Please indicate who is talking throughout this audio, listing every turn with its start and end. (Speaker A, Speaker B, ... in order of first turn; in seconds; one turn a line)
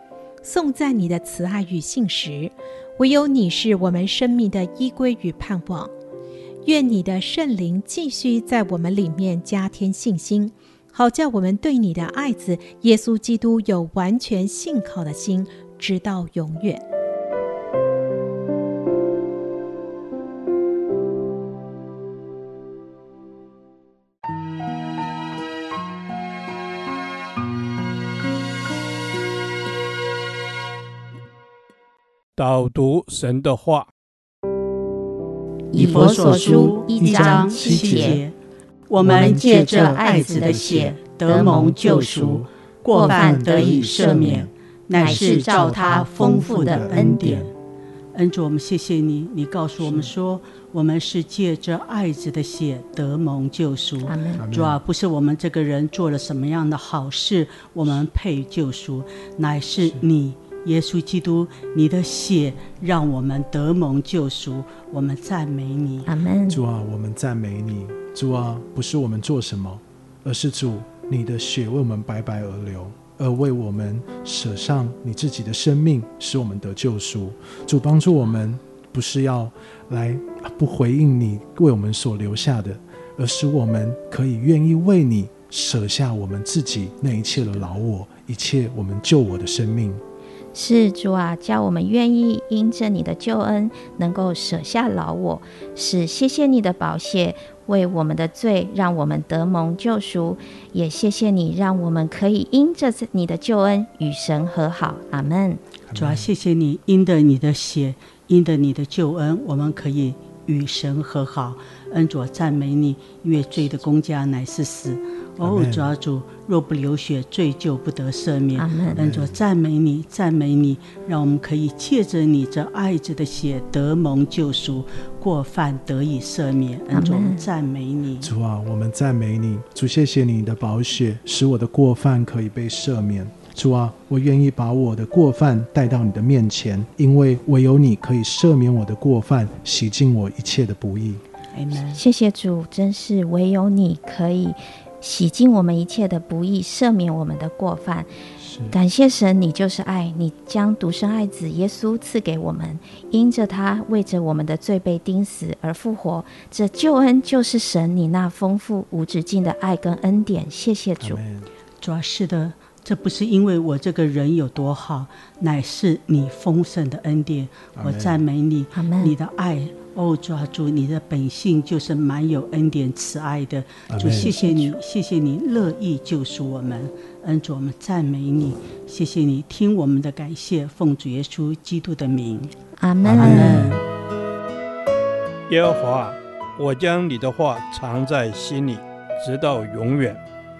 Speaker A: 0.4-5.9
Speaker A: 6.6-16.8
Speaker B: 32.4-33.9
Speaker C: 35.7-38.2
Speaker D: 35.7-38.4
Speaker E: 36.0-38.2
Speaker D: 38.9-47.5
Speaker E: 39.0-47.5
Speaker C: 39.0-42.0
Speaker C: 42.9-47.4
Speaker D: 48.1-66.1
Speaker E: 49.8-50.1
Speaker C: 54.0-54.4
Speaker E: 54.4-54.8
Speaker C: 66.0-66.6
Speaker E: 66.5-90.0
Speaker C: 90.5-105.6
Speaker E: 105.9-106.3
Speaker D: 105.9-128.3
Speaker E: 115.4-116.0
Speaker C: 118.5-119.0
Speaker E: 118.9-119.4
Speaker C: 126.9-127.4
Speaker E: 128.2-141.2
Speaker D: 141.5-142.0
Speaker C: 141.9-148.1
Speaker E: 148.4-148.8
Speaker C: 148.7-161.2
Speaker E: 161.0-161.5
Speaker D: 161.8-182.5
Speaker E: 167.7-168.2
Speaker C: 168.7-169.2
Speaker E: 173.9-174.4
Speaker C: 182.8-183.7
Speaker E: 183.0-183.8
Speaker D: 183.1-183.8
Speaker B: 185.5-190.2